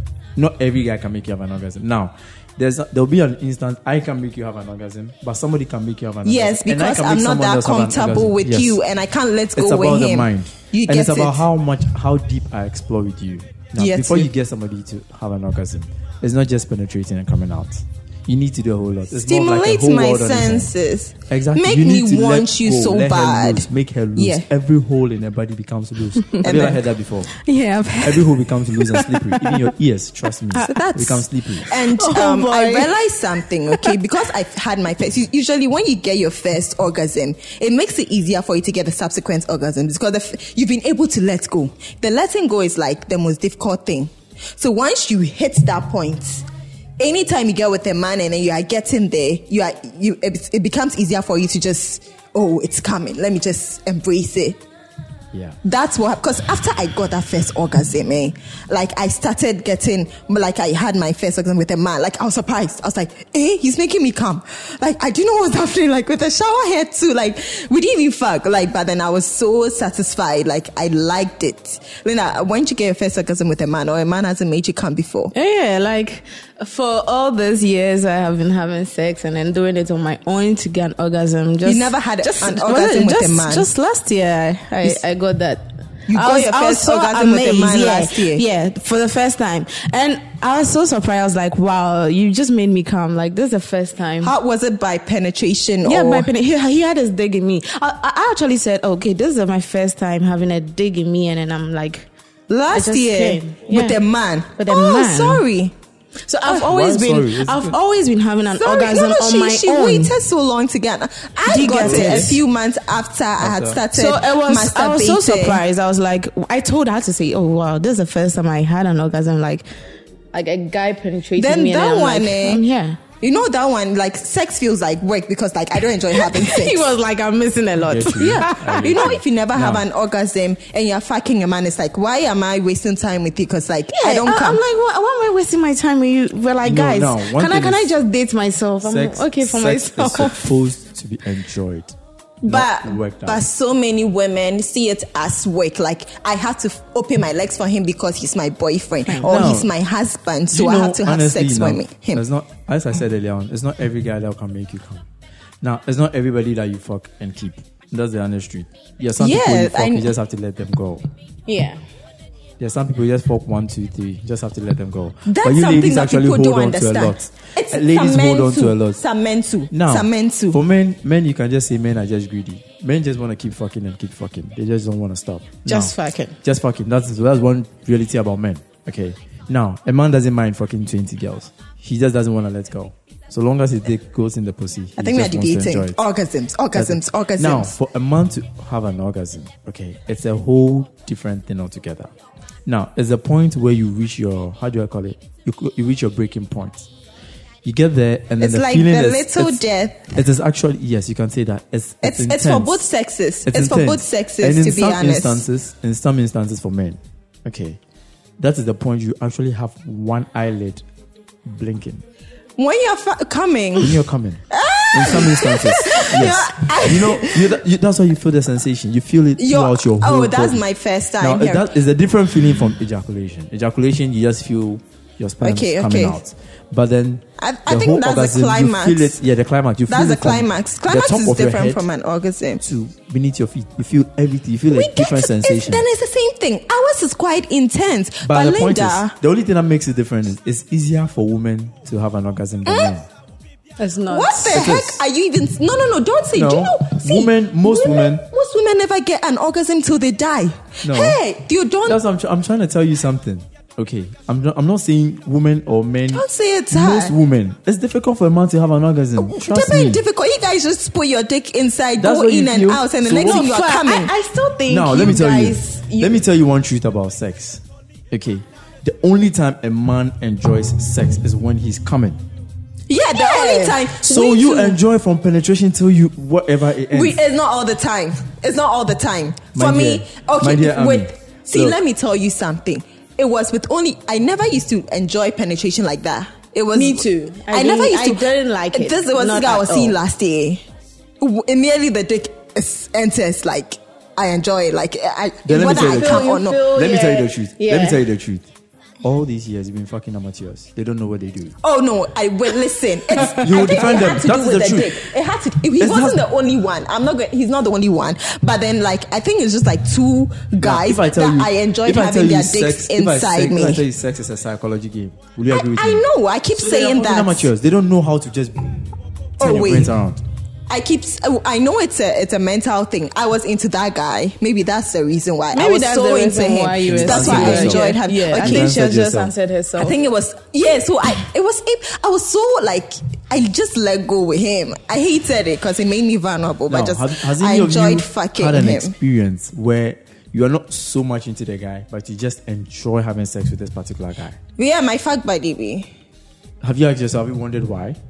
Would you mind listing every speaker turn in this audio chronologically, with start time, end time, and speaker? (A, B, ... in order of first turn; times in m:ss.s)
0:00.4-0:08.8 A
0:06.2-0:11.4 B
0:09.6-0:20.7 A
0:13.8-0:14.3 B
0:19.2-0:24.5 B
0:21.3-0:27.4 A
0:26.4-0:26.8 B
0:27.4-0:29.6 C
0:28.0-0:31.7 A
0:30.6-0:46.5 B
0:31.7-0:33.0 C
0:47.0-0:54.6 B
0:55.6-1:15.3 B
1:15.3-1:34.3 C
1:21.6-1:23.7 B
1:26.1-1:28.4 B
1:34.2-1:36.3 B
1:35.8-1:42.1 C
1:42.5-1:45.8 B
1:42.7-1:44.0 C
1:44.6-1:45.4 C
1:46.3-1:50.1 C
1:46.4-1:47.8 A
1:48.6-1:55.6 B
1:51.4-1:52.4 C
1:51.8-1:52.4 A
1:53.4-1:53.8 A
1:53.9-1:59.6 C
2:00.3-2:03.0 C
2:01.4-2:02.6 B
2:03.2-2:06.9 B
2:06.1-2:08.8 C
2:07.9-2:09.8 A
2:08.2-2:14.6 B
2:14.0-2:20.5 C
2:16.6-2:17.9 A
2:18.8-2:23.4 A
2:22.4-2:32.2 B
2:29.1-2:29.3 C
2:29.2-2:29.7 A
2:30.5-2:35.1 A
2:35.6-2:41.1 A
2:39.2-2:40.1 B
2:41.5-2:41.8 C
2:42.6-2:49.0 A
2:45.3-2:50.6 B
2:49.7-3:06.0 A
2:55.7-2:56.4 C
3:05.0-3:07.7 B
3:06.7-3:12.1 A
3:12.7-3:16.9 A
3:17.6-3:22.8 A
3:18.4-3:20.2 B
3:22.0-3:25.4 B
3:23.5-3:27.8 A
3:28.4-3:30.8 A
3:31.5-3:32.0 A
3:32.6-3:34.0 B
3:33.8-3:40.6 A
3:34.5-3:37.5 B
3:39.4-3:41.7 B
3:41.2-3:51.8 A
3:45.4-3:46.2 B
3:47.4-3:49.2 B
3:49.9-3:52.6 B
3:52.6-3:55.9 A
3:54.7-3:59.2 B
3:58.2-4:03.1 A
4:02.7-4:02.9 B
4:03.8-4:04.6 C
4:04.1-4:12.0 B
4:04.5-4:05.0 A
4:06.4-4:08.2 A
4:10.8-4:11.2 A
4:11.9-4:20.0 A
4:16.1-4:17.2 B
4:19.2-4:24.1 B
4:22.0-4:23.5 A
4:23.2-4:26.2 C
4:24.7-4:32.2 A
4:32.9-4:34.8 B
4:33.2-4:33.8 C
4:34.0-4:37.2 A
4:36.9-4:50.6 B
4:39.5-4:41.8 A
4:46.7-4:50.0 C
4:51.2-4:56.7 B
4:55.4-4:58.5 A
4:55.6-4:58.0 C
4:59.0-5:01.5 A
5:01.6-5:13.8 B
5:03.2-5:05.0 A
5:05.8-5:06.2 A
5:10.6-5:18.8 A
5:15.5-5:17.5 B
5:19.4-5:20.2 A
5:19.4-5:20.0 B
5:20.7-5:28.8 B
5:25.5-5:30.0 C
5:26.8-5:29.3 A
5:29.8-5:38.9 B
5:36.7-5:44.4 A
5:44.6-5:45.9 B
5:46.6-5:48.0 A